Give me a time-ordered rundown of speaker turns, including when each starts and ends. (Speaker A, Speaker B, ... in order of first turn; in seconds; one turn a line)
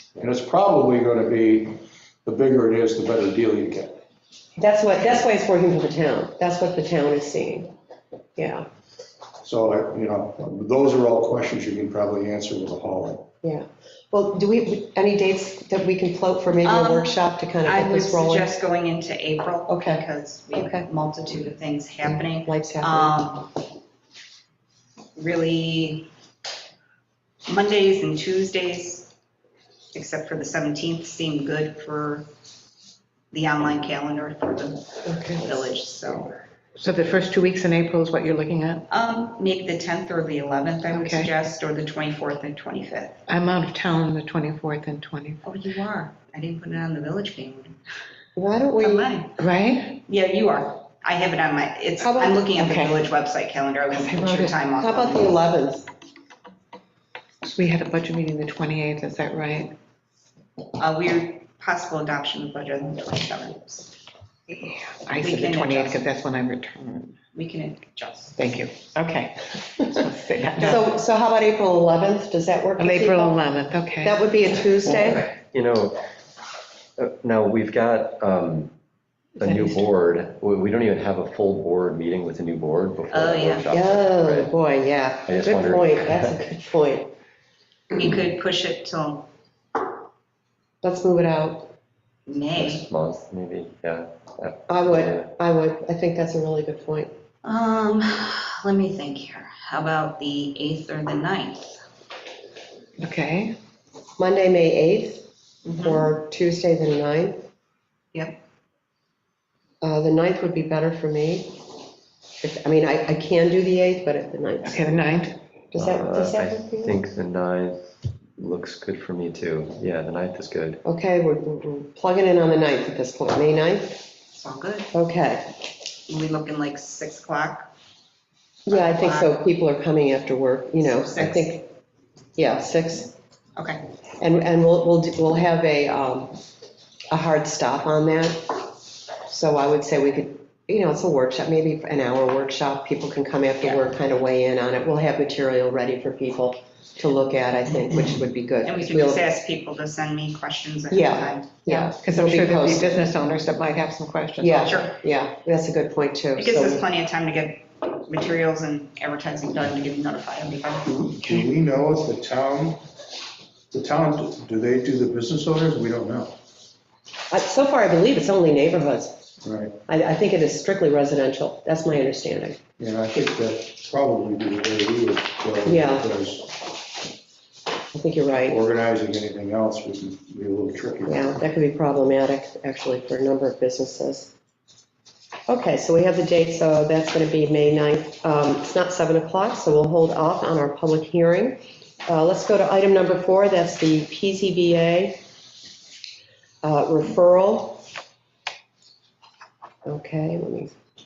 Speaker A: 0.2-4.0
Speaker B: 4.6-7.7
Speaker B: 8.3-8.7
Speaker A: 9.4-13.3
Speaker B: 13.4-18.5
Speaker C: 16.6-23.5
Speaker B: 19.7-20.9
Speaker B: 22.0-23.2
Speaker C: 25.1-26.1
Speaker C: 27.4-29.1
Speaker C: 29.9-32.3
Speaker C: 33.3-36.4
Speaker B: 35.0-35.7
Speaker D: 36.8-38.8
Speaker C: 38.9-43.2
Speaker D: 40.9-41.3
Speaker D: 43.3-45.4
Speaker C: 45.4-47.8
Speaker B: 48.4-49.1
Speaker C: 48.8-49.3
Speaker D: 49.4-50.0
Speaker C: 50.0-55.4
Speaker D: 52.0-53.1
Speaker D: 53.9-54.6
Speaker B: 54.8-55.9
Speaker D: 57.4-59.7
Speaker C: 60.8-63.9
Speaker D: 64.5-67.2
Speaker C: 65.2-66.0
Speaker C: 67.3-68.4
Speaker D: 68.4-70.8
Speaker B: 70.6-73.5
Speaker D: 72.8-74.2
Speaker B: 74.0-75.2
Speaker E: 74.9-76.0
Speaker E: 77.0-78.7
Speaker E: 79.3-84.5
Speaker D: 79.4-79.9
Speaker C: 83.1-83.7
Speaker B: 83.7-87.1
Speaker E: 85.2-86.3
Speaker C: 87.9-89.3
Speaker B: 90.8-91.7
Speaker C: 92.2-92.8
Speaker E: 92.5-95.3
Speaker B: 94.7-97.1
Speaker C: 97.4-101.8
Speaker D: 103.0-103.5
Speaker B: 104.2-105.2
Speaker C: 105.6-106.1
Speaker B: 105.8-107.4
Speaker C: 108.1-108.4
Speaker B: 109.8-111.5
Speaker B: 112.4-114.8
Speaker D: 114.6-115.4
Speaker B: 115.7-117.0
Speaker E: 115.8-117.8
Speaker E: 118.4-120.8
Speaker B: 120.8-124.0
Speaker C: 124.3-124.9
Speaker B: 124.9-125.5
Speaker C: 126.1-127.7
Speaker B: 128.7-131.7
Speaker C: 128.7-129.3
Speaker C: 130.8-131.5
Speaker B: 132.3-133.1
Speaker C: 133.6-133.8
Speaker B: 134.2-136.4
Speaker B: 137.1-138.6
Speaker B: 139.3-149.3
Speaker C: 148.6-151.6
Speaker B: 150.9-153.1
Speaker D: 151.7-154.8
Speaker B: 154.4-156.8
Speaker C: 154.7-154.9
Speaker C: 156.3-161.1
Speaker A: 160.8-162.8
Speaker A: 163.7-166.3
Speaker B: 167.3-169.2
Speaker A: 169.4-169.8
Speaker B: 169.9-172.6
Speaker A: 172.8-176.6
Speaker B: 175.6-176.1
Speaker B: 177.9-178.6
Speaker A: 178.4-181.3
Speaker B: 181.1-184.3
Speaker B: 185.5-195.2
Speaker B: 196.6-197.8
Speaker B: 199.8-200.7